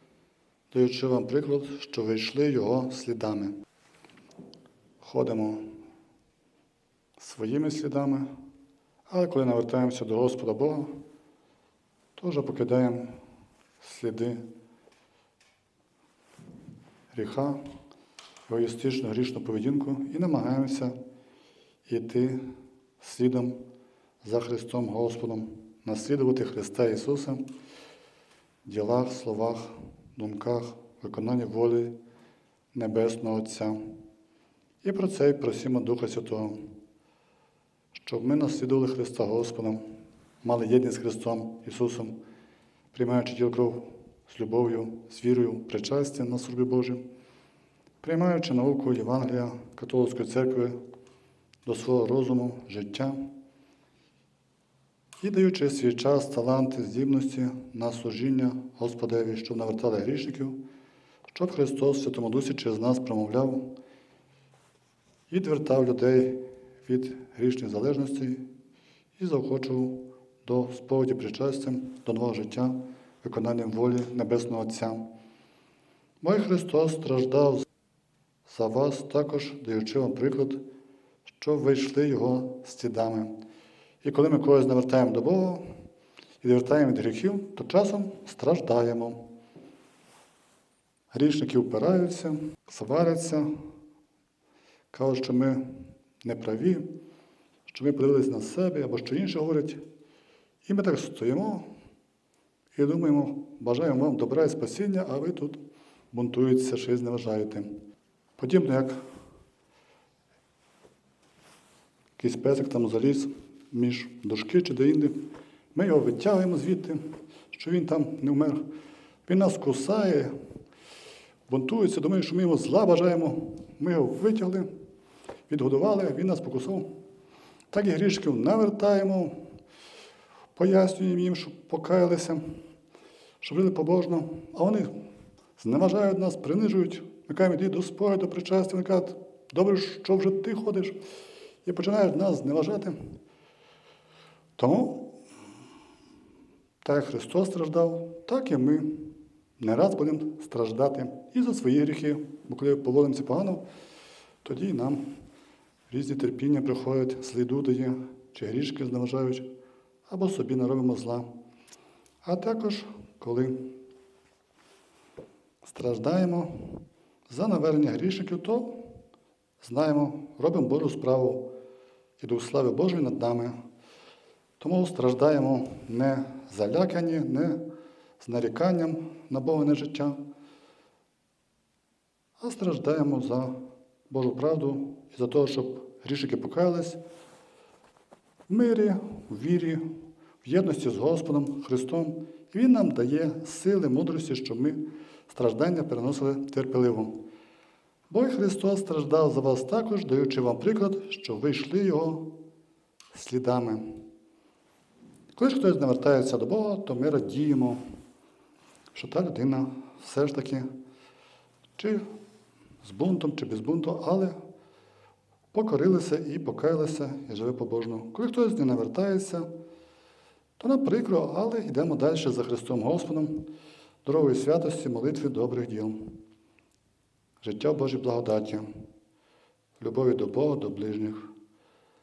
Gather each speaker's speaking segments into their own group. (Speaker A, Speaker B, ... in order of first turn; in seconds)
Speaker A: 0.7-3.5, 5.0-5.7, 7.2-8.3, 9.1-10.9, 12.2-13.1, 13.8-14.4, 17.1-17.6, 18.5-20.9, 21.9-22.4, 23.0-23.6, 24.2-27.4, 28.6-31.9, 32.7-33.8, 34.8-36.6, 38.0-39.8, 40.4-42.1, 42.9-47.0, 48.0-50.8, 51.6-53.2, 55.2-60.6, 61.3-63.6, 65.3-68.4, 69.2-75.0, 76.2-77.7, 78.5-80.6, 81.4-83.3, 84.0-85.6, 86.4-89.2, 91.1-93.5, 94.9-95.7, 96.2-96.9, 97.7-99.8, 100.7-101.7, 102.8-105.6, 106.1-107.7, 108.4-109.0, 112.2-115.2, 115.7-117.0, 117.5-118.6, 119.3-120.3, 121.5-124.7, 125.5-126.9, 127.7-129.3, 130.6-132.4, 133.4-134.9, 135.6-141.0, 141.7-143.0, 144.6-145.1, 146.8-153.6, 154.4-155.0, 155.9-159.5, 160.1-161.3, 162.2-163.7, 165.6-168.9, 169.6-171.5, 172.2-173.6, 174.6-177.6, 178.2-180.2, 182.4-183.5, 184.1-187.0, 188.5-189.8, 190.4-197.2, 198.1-202.3, 203.1-203.8, 205.4-207.8, 208.9-210.7, 211.8-212.0, 212.8-214.3, 215.5-219.5, 220.6-223.4, 224.0-226.0, 227.4-228.7, 229.8-231.3